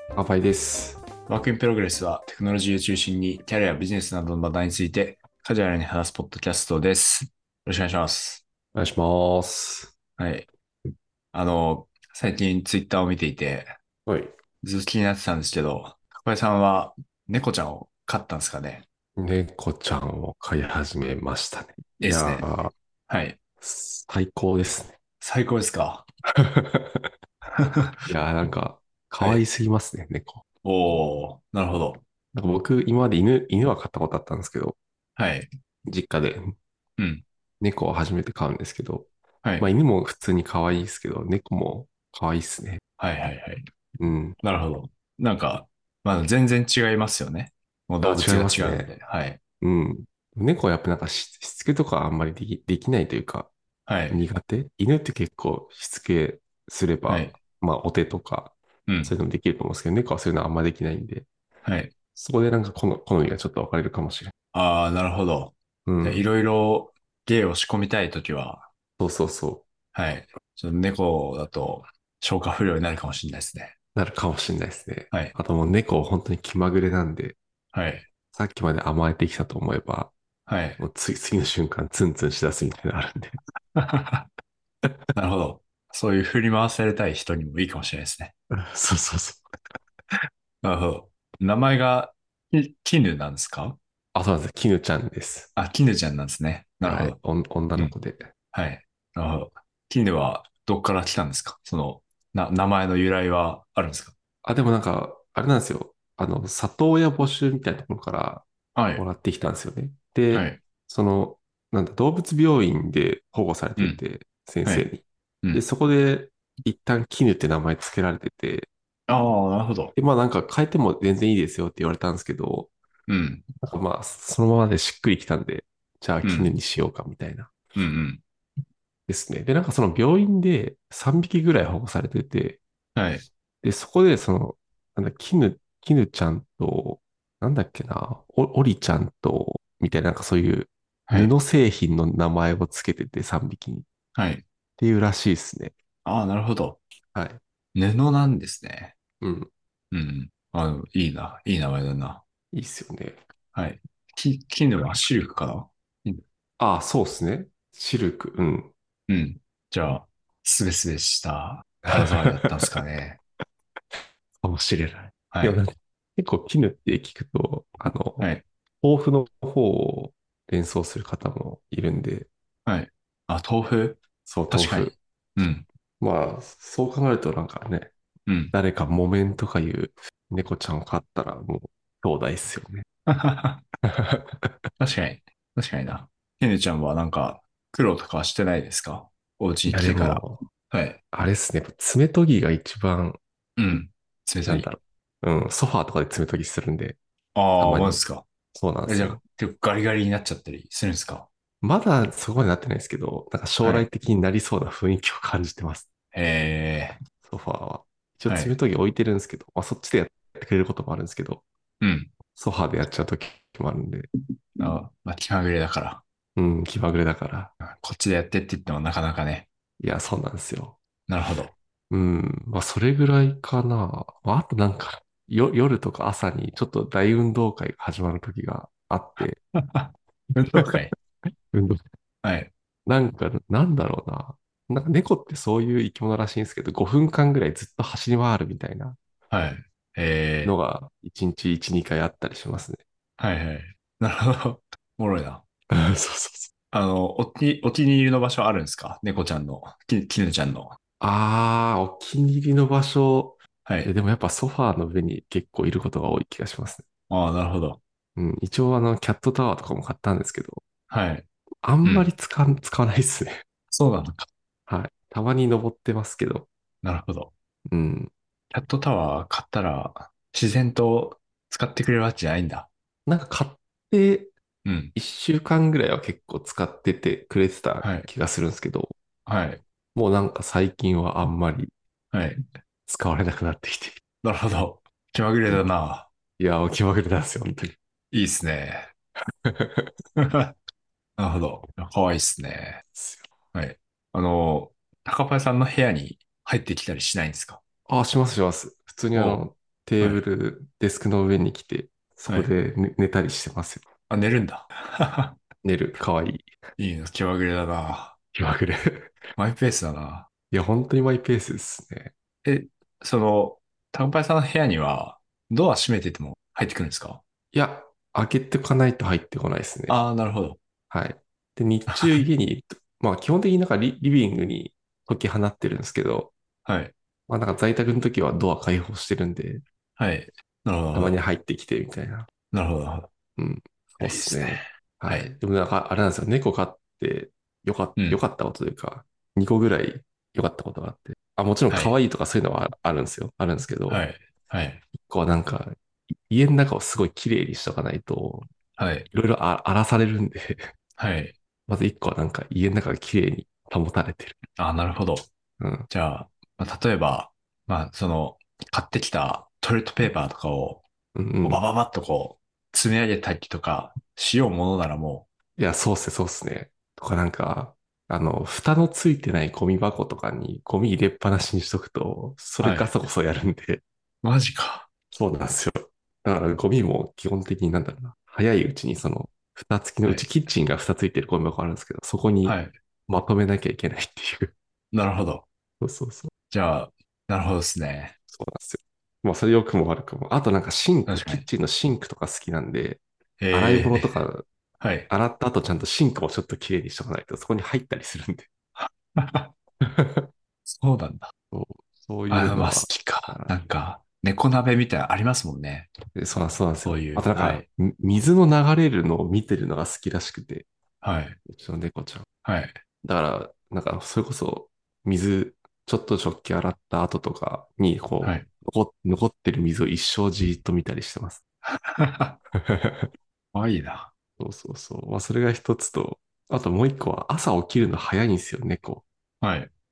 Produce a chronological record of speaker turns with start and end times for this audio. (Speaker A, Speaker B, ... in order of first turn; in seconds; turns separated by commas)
Speaker A: 0.1-1.0, Speaker B: 1.3-8.4, Speaker A: 8.7-9.9, Speaker B: 10.2-10.5, Speaker B: 11.3-13.7, Speaker A: 14.1-14.3, Speaker B: 14.6-18.8, Speaker A: 19.1-22.7, Speaker B: 22.0-22.5, Speaker B: 23.1-23.4, Speaker A: 23.6-24.9, Speaker B: 25.2-26.1, Speaker A: 26.3-27.1, Speaker B: 27.5-28.0, Speaker A: 28.1-30.4, Speaker B: 30.6-32.0, Speaker A: 32.3-34.8, Speaker B: 35.1-35.5, Speaker A: 35.9-36.5, Speaker B: 37.0-37.2, Speaker A: 37.6-42.8, Speaker B: 43.0-43.6, Speaker A: 44.0-44.4, Speaker B: 44.4-49.4, Speaker A: 48.0-48.9, Speaker A: 49.6-53.5, Speaker B: 53.9-54.2, Speaker A: 54.1-61.3, Speaker B: 57.1-57.3, Speaker B: 58.9-59.1, Speaker B: 61.6-61.9, Speaker A: 62.1-64.3, Speaker B: 64.5-68.7, Speaker A: 65.8-66.2, Speaker A: 69.0-69.7, Speaker B: 69.9-73.7, Speaker A: 73.9-77.3, Speaker B: 77.7-78.0, Speaker A: 78.3-80.1, Speaker B: 80.5-80.8, Speaker A: 80.8-83.4, Speaker B: 83.8-84.3, Speaker B: 85.1-88.3, Speaker A: 88.5-89.5, Speaker B: 90.6-93.8, Speaker A: 94.1-95.5, Speaker B: 95.5-97.2, Speaker A: 96.8-98.2, Speaker B: 98.5-104.1, Speaker A: 104.4-118.7, Speaker B: 108.7-109.0, Speaker B: 110.3-110.6, Speaker B: 119.1-119.9, Speaker A: 119.9-122.7, Speaker B: 123.1-123.5, Speaker A: 123.6-127.5, Speaker B: 126.2-126.5, Speaker B: 127.8-128.2, Speaker A: 129.1-132.6, Speaker B: 132.9-133.2, Speaker A: 133.6-143.8, Speaker B: 144.2-144.4, Speaker A: 144.8-145.7, Speaker B: 146.0-146.8, Speaker A: 147.1-147.4, Speaker B: 147.7-148.9, Speaker A: 149.2-149.5, Speaker B: 149.9-152.2, Speaker A: 152.5-153.2, Speaker B: 153.5-156.2, Speaker A: 156.6-158.7, Speaker B: 159.1-163.2, Speaker A: 161.8-162.7, Speaker A: 164.4-168.3, Speaker B: 165.3-165.6, Speaker B: 168.2-168.4, Speaker A: 168.8-172.3, Speaker B: 172.7-175.7, Speaker A: 174.2-174.9, Speaker A: 176.0-177.9, Speaker B: 178.3-178.5, Speaker A: 178.5-182.8, Speaker B: 183.1-183.6, Speaker A: 183.8-184.6, Speaker B: 184.8-191.0, Speaker A: 189.7-190.4, Speaker A: 191.1-193.2, Speaker B: 193.6-194.7, Speaker A: 194.4-197.0, Speaker B: 197.3-198.2, Speaker A: 197.6-198.0, Speaker A: 198.5-199.2, Speaker B: 198.8-201.3, Speaker A: 201.6-205.9, Speaker B: 203.6-203.9, Speaker B: 206.1-207.0, Speaker A: 207.2-211.4, Speaker B: 208.3-208.5, Speaker B: 211.8-212.1, Speaker A: 212.3-214.1, Speaker B: 214.6-216.0, Speaker A: 216.3-217.5, Speaker B: 217.6-219.5, Speaker A: 219.8-220.8, Speaker B: 221.1-221.5, Speaker A: 221.9-229.4, Speaker B: 229.5-230.9, Speaker A: 231.5-231.8, Speaker B: 232.2-232.5, Speaker A: 232.8-239.0, Speaker B: 239.3-240.5, Speaker A: 240.4-242.8, Speaker B: 243.2-245.4, Speaker A: 245.7-246.5, Speaker B: 246.7-250.8, Speaker A: 251.0-256.9, Speaker B: 253.7-253.9, Speaker B: 257.1-257.8, Speaker A: 258.1-260.6, Speaker B: 260.9-261.2, Speaker A: 261.6-263.4, Speaker B: 261.8-262.1, Speaker B: 263.7-264.3, Speaker A: 264.7-266.5, Speaker B: 266.8-267.3, Speaker A: 267.7-268.1, Speaker B: 268.5-272.7, Speaker A: 273.1-274.3, Speaker B: 274.6-274.9, Speaker A: 274.9-278.9, Speaker B: 277.8-278.1, Speaker B: 279.2-279.6, Speaker A: 279.9-281.7, Speaker B: 282.1-282.5, Speaker A: 282.9-284.0, Speaker B: 284.2-286.1, Speaker A: 286.4-287.8, Speaker B: 288.1-288.9, Speaker A: 289.4-289.9, Speaker B: 290.2-290.5, Speaker B: 291.2-292.8, Speaker A: 292.9-293.3, Speaker B: 293.5-297.6, Speaker A: 297.9-303.8, Speaker B: 299.1-299.4, Speaker B: 302.3-302.5, Speaker B: 304.1-305.4, Speaker A: 305.6-306.5, Speaker B: 306.8-308.2, Speaker A: 308.3-309.1, Speaker B: 309.4-310.3, Speaker A: 310.5-312.1, Speaker B: 312.4-317.2, Speaker A: 317.5-320.0, Speaker B: 319.9-320.6, Speaker A: 320.9-326.3, Speaker B: 321.9-322.2, Speaker B: 326.6-326.9, Speaker A: 327.3-329.6, Speaker B: 330.0-331.2, Speaker A: 330.9-332.3, Speaker B: 332.5-333.1, Speaker A: 333.4-344.0, Speaker B: 334.0-335.3, Speaker B: 341.7-341.9, Speaker B: 343.9-344.8, Speaker A: 344.9-348.5, Speaker B: 348.8-349.1, Speaker A: 349.1-350.7, Speaker B: 351.0-351.3, Speaker A: 351.7-354.4, Speaker B: 354.6-355.3, Speaker A: 355.6-355.9, Speaker B: 355.9-360.8, Speaker A: 361.1-361.6, Speaker B: 361.4-365.2, Speaker A: 365.6-373.8, Speaker B: 372.6-372.9, Speaker B: 374.2-374.9, Speaker A: 375.1-384.5, Speaker B: 380.0-380.3, Speaker B: 382.4-382.7, Speaker B: 384.9-385.4, Speaker A: 385.8-386.3, Speaker B: 386.5-388.1, Speaker A: 388.3-394.4, Speaker B: 391.1-391.5, Speaker B: 393.4-394.2, Speaker B: 394.8-395.1, Speaker A: 395.1-398.5, Speaker B: 398.8-399.5, Speaker A: 399.8-400.3, Speaker B: 400.6-401.3, Speaker A: 401.5-403.5, Speaker B: 402.3-405.9, Speaker A: 406.1-410.7, Speaker B: 406.8-407.6, Speaker B: 411.0-411.4, Speaker A: 411.4-412.3, Speaker B: 412.4-412.8, Speaker A: 413.0-421.4, Speaker B: 418.2-418.5, Speaker B: 421.6-422.4, Speaker A: 422.5-423.1, Speaker B: 423.5-424.1, Speaker A: 424.4-429.0, Speaker B: 429.4-429.7